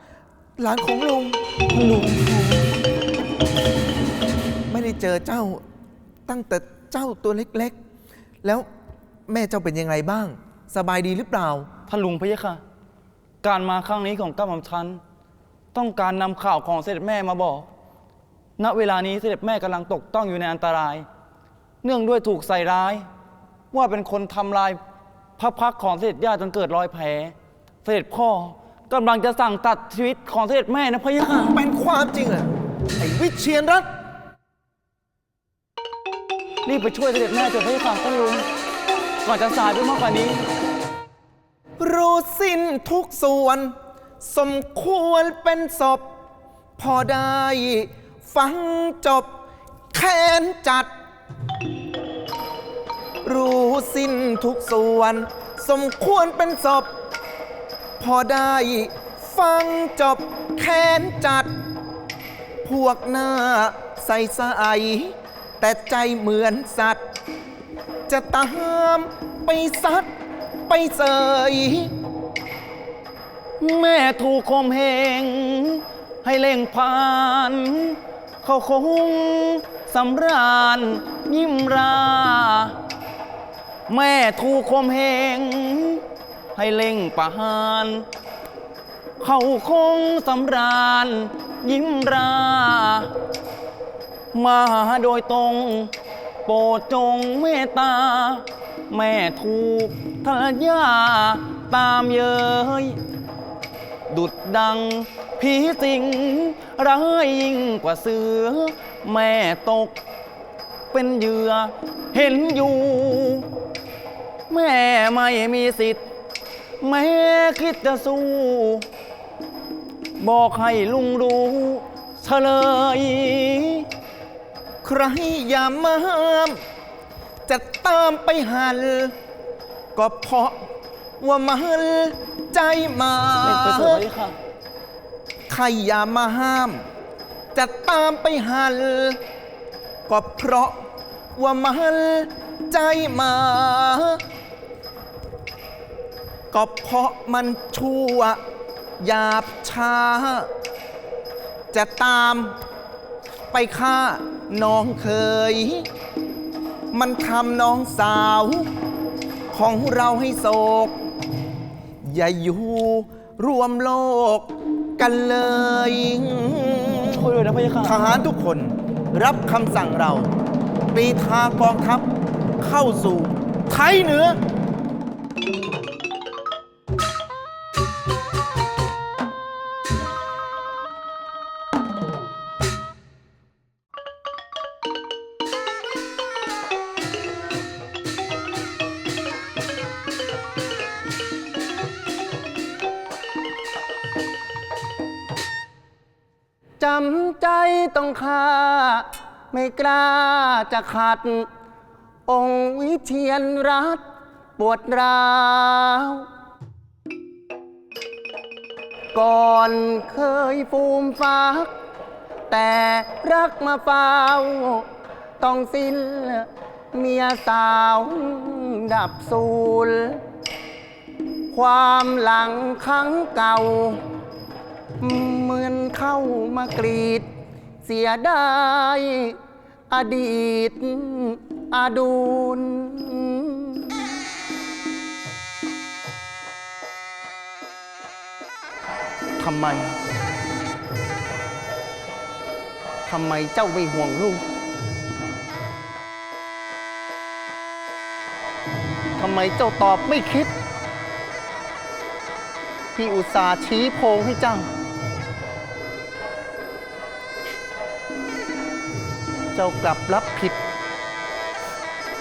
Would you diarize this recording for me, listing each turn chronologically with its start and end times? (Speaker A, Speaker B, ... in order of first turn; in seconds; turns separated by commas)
Speaker A: 0.6-1.4, Speaker B: 1.7-2.6, Speaker A: 4.7-5.6, Speaker A: 6.3-7.8, Speaker A: 8.4-8.7, Speaker A: 9.3-11.7, Speaker B: 11.9-12.6, Speaker B: 13.4-15.0, Speaker B: 15.7-17.7, Speaker B: 18.6-21.1, Speaker B: 21.8-23.1, Speaker B: 23.7-24.8, Speaker B: 25.4-27.3, Speaker B: 27.9-31.6, Speaker A: 31.5-33.9, Speaker B: 36.6-38.5, Speaker B: 39.2-40.4, Speaker A: 41.8-46.1, Speaker A: 46.8-49.3, Speaker A: 49.9-50.9, Speaker A: 53.2-56.9, Speaker A: 58.0-61.5, Speaker A: 62.6-67.0, Speaker A: 68.1-70.1, Speaker A: 70.7-71.9, Speaker B: 73.6-82.8, Speaker B: 83.9-86.0, Speaker B: 86.6-88.0, Speaker B: 89.2-93.1, Speaker B: 94.3-95.9, Speaker B: 96.5-103.0, Speaker B: 104.1-110.0, Speaker B: 110.9-113.5, Speaker B: 114.5-116.0, Speaker B: 116.8-118.8, Speaker B: 120.2-123.9, Speaker A: 124.8-126.6, Speaker A: 127.5-129.2, Speaker A: 129.9-130.7, Speaker A: 131.2-134.0, Speaker B: 133.4-134.4, Speaker A: 135.5-136.9, Speaker A: 137.5-139.2, Speaker A: 140.1-140.8, Speaker A: 141.4-144.2, Speaker A: 146.5-148.4, Speaker A: 149.0-150.5, Speaker A: 151.7-152.6, Speaker A: 153.5-155.9, Speaker A: 156.9-158.7, Speaker A: 159.5-161.0, Speaker A: 162.0-167.2, Speaker B: 167.1-168.0, Speaker A: 167.8-170.3, Speaker A: 170.9-172.1, Speaker A: 172.6-174.4, Speaker C: 196.8-201.5, Speaker C: 202.3-204.1, Speaker C: 204.6-206.3, Speaker C: 209.1-211.7, Speaker C: 212.5-214.9, Speaker C: 215.4-220.2, Speaker C: 221.5-224.0, Speaker C: 225.0-227.3, Speaker C: 227.8-229.4, Speaker C: 229.9-233.9, Speaker C: 239.4-240.0, Speaker C: 243.1-244.4, Speaker C: 249.2-250.5, Speaker C: 252.9-254.7, Speaker C: 259.5-260.6